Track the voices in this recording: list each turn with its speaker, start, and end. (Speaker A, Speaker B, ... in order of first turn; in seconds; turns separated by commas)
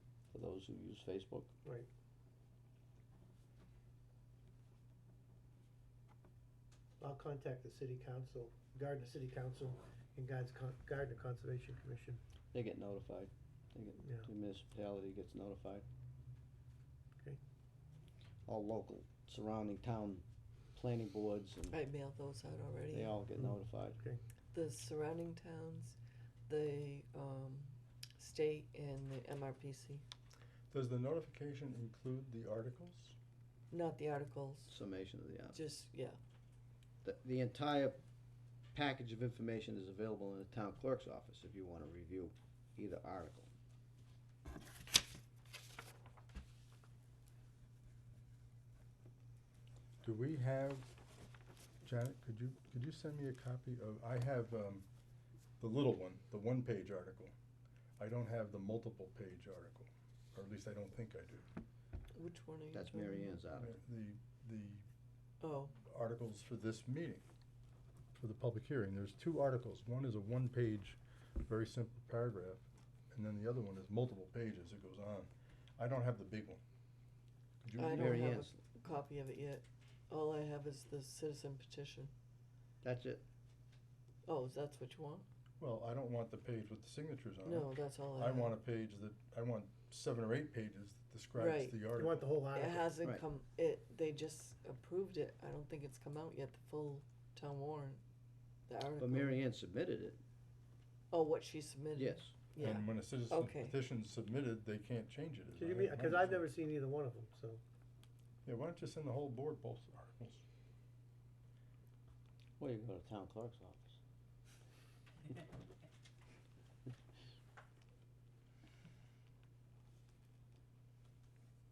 Speaker A: 0.3-1.5, Speaker B: 7.0-12.2, Speaker A: 12.5-15.8, Speaker B: 14.0-14.3, Speaker A: 18.5-20.2, Speaker A: 20.8-21.8, Speaker C: 21.7-23.2, Speaker A: 22.9-24.0, Speaker B: 23.4-24.2, Speaker C: 24.5-26.0, Speaker C: 26.5-30.0, Speaker D: 30.7-33.2, Speaker C: 33.7-34.7, Speaker A: 34.7-35.6, Speaker C: 35.5-36.2, Speaker A: 37.0-38.0, Speaker A: 38.7-43.5, Speaker D: 50.0-50.9, Speaker D: 51.8-54.9, Speaker D: 55.6-57.3, Speaker D: 58.0-61.5, Speaker C: 62.1-63.4, Speaker A: 62.7-63.8, Speaker D: 63.6-64.8, Speaker C: 65.4-65.8, Speaker D: 65.9-67.2, Speaker D: 68.2-76.6, Speaker D: 77.6-78.3, Speaker C: 77.8-82.1, Speaker A: 77.9-78.6, Speaker A: 82.8-83.2, Speaker C: 84.3-85.3, Speaker D: 85.6-92.3, Speaker C: 87.4-88.6, Speaker C: 91.4-91.9, Speaker B: 91.9-93.0, Speaker C: 92.5-98.0, Speaker C: 98.7-99.4, Speaker A: 99.0-100.2, Speaker C: 101.1-103.8, Speaker A: 102.0-102.3, Speaker D: 102.6-106.5, Speaker B: 105.6-107.6, Speaker D: 108.5-110.4, Speaker A: 112.6-114.0